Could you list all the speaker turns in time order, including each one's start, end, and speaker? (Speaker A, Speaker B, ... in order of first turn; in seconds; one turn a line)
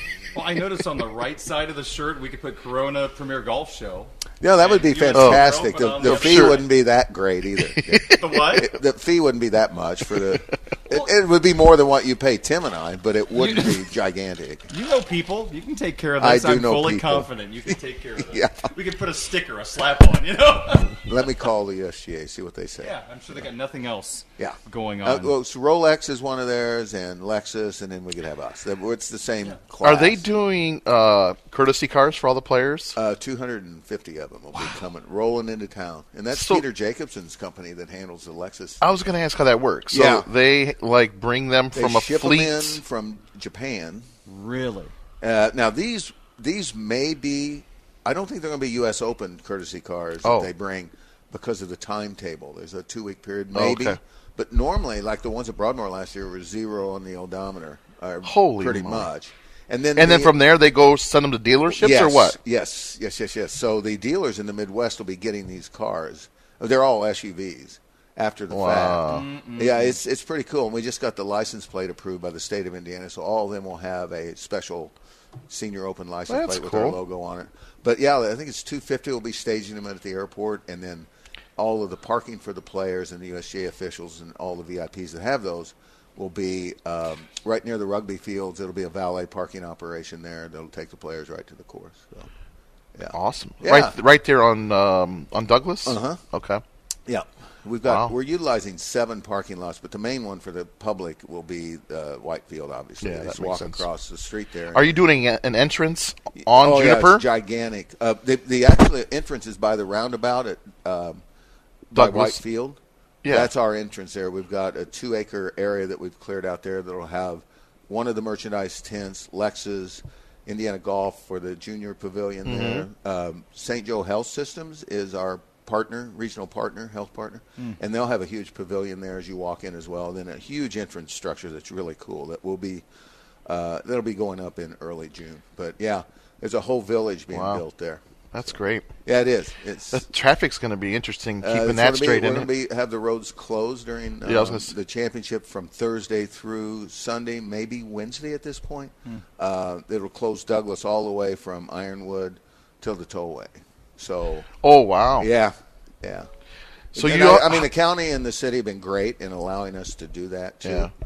Speaker A: 0.3-6.7
Speaker B: 4.4-14.7
Speaker C: 5.1-5.5
Speaker C: 6.0-6.6
Speaker C: 7.7-8.2
Speaker A: 8.1-8.7
Speaker C: 10.1-10.4
Speaker A: 13.3-13.9
Speaker A: 14.7-21.0
Speaker B: 16.2-17.3
Speaker B: 18.2-18.7
Speaker B: 21.0-22.9
Speaker A: 22.8-25.3
Speaker B: 24.4-30.2
Speaker C: 29.8-33.0
Speaker B: 33.0-38.8
Speaker C: 36.3-36.6
Speaker C: 38.8-42.8
Speaker B: 39.9-40.2
Speaker B: 41.7-44.1
Speaker A: 44.2-44.9
Speaker B: 45.2-60.3
Speaker C: 50.2-50.5
Speaker C: 53.5-54.0
Speaker C: 58.2-59.1
Speaker C: 59.9-62.4
Speaker B: 61.7-74.9
Speaker C: 68.5-69.2
Speaker A: 69.1-70.0
Speaker B: 75.5-92.3
Speaker C: 76.3-77.0
Speaker B: 92.9-93.9
Speaker C: 93.1-96.6
Speaker B: 95.8-96.2
Speaker B: 97.1-105.0
Speaker C: 97.8-98.1
Speaker C: 103.0-103.8
Speaker C: 104.7-107.2
Speaker B: 106.4-111.2
Speaker B: 111.9-132.8
Speaker C: 111.9-112.4
Speaker C: 113.2-113.5
Speaker C: 122.4-122.9
Speaker B: 133.4-138.0
Speaker C: 137.3-137.6
Speaker C: 138.3-138.9
Speaker B: 139.0-140.0
Speaker C: 139.9-142.5
Speaker B: 141.4-154.5
Speaker C: 144.2-144.7
Speaker C: 154.6-155.3
Speaker B: 155.2-156.3
Speaker B: 156.9-160.9
Speaker C: 156.9-157.7
Speaker C: 160.6-160.9